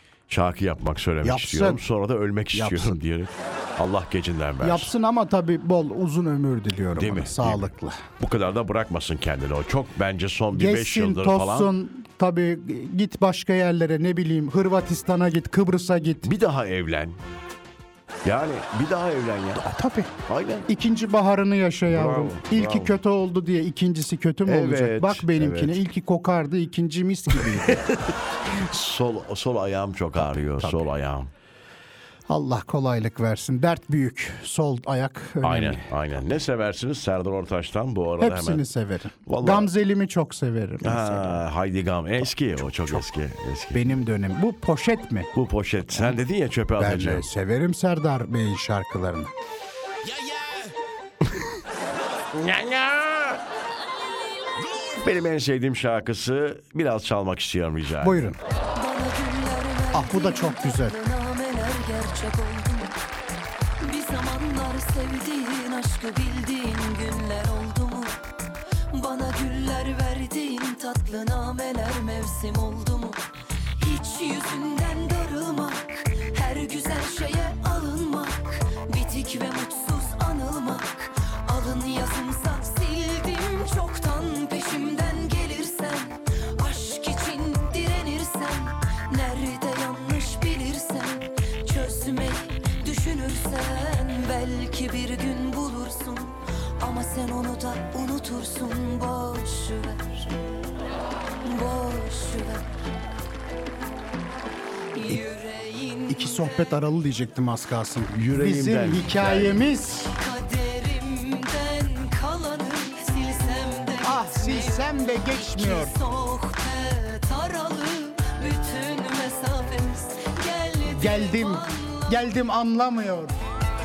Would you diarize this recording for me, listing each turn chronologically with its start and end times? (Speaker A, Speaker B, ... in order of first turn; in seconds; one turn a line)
Speaker A: 0.3-4.9
Speaker B: 1.2-1.8
Speaker B: 2.5-3.0
Speaker B: 4.6-8.0
Speaker A: 7.0-11.7
Speaker B: 10.5-16.3
Speaker A: 16.2-17.2
Speaker A: 18.2-19.6
Speaker B: 19.6-20.1
Speaker A: 20.3-20.7
Speaker B: 20.7-27.9
Speaker A: 21.9-23.0
Speaker A: 24.5-25.8
Speaker A: 27.3-31.3
Speaker B: 30.4-30.8
Speaker B: 32.3-35.9
Speaker A: 35.4-38.6
Speaker B: 38.2-41.4
Speaker A: 39.3-39.7
Speaker A: 40.8-44.0
Speaker B: 42.6-43.0
Speaker B: 43.7-45.3
Speaker A: 45.3-47.3
Speaker B: 46.8-49.3
Speaker A: 50.1-50.7
Speaker A: 52.3-53.4
Speaker A: 54.7-58.3
Speaker B: 58.0-58.4
Speaker C: 58.8-62.9
Speaker B: 59.9-61.0
Speaker C: 63.8-68.2
Speaker C: 68.9-73.2
Speaker C: 73.8-100.3
Speaker C: 101.4-102.6
Speaker C: 105.0-106.6
Speaker B: 106.1-110.1
Speaker A: 108.1-109.7
Speaker C: 110.1-122.3
Speaker B: 114.0-115.9
Speaker B: 120.9-123.3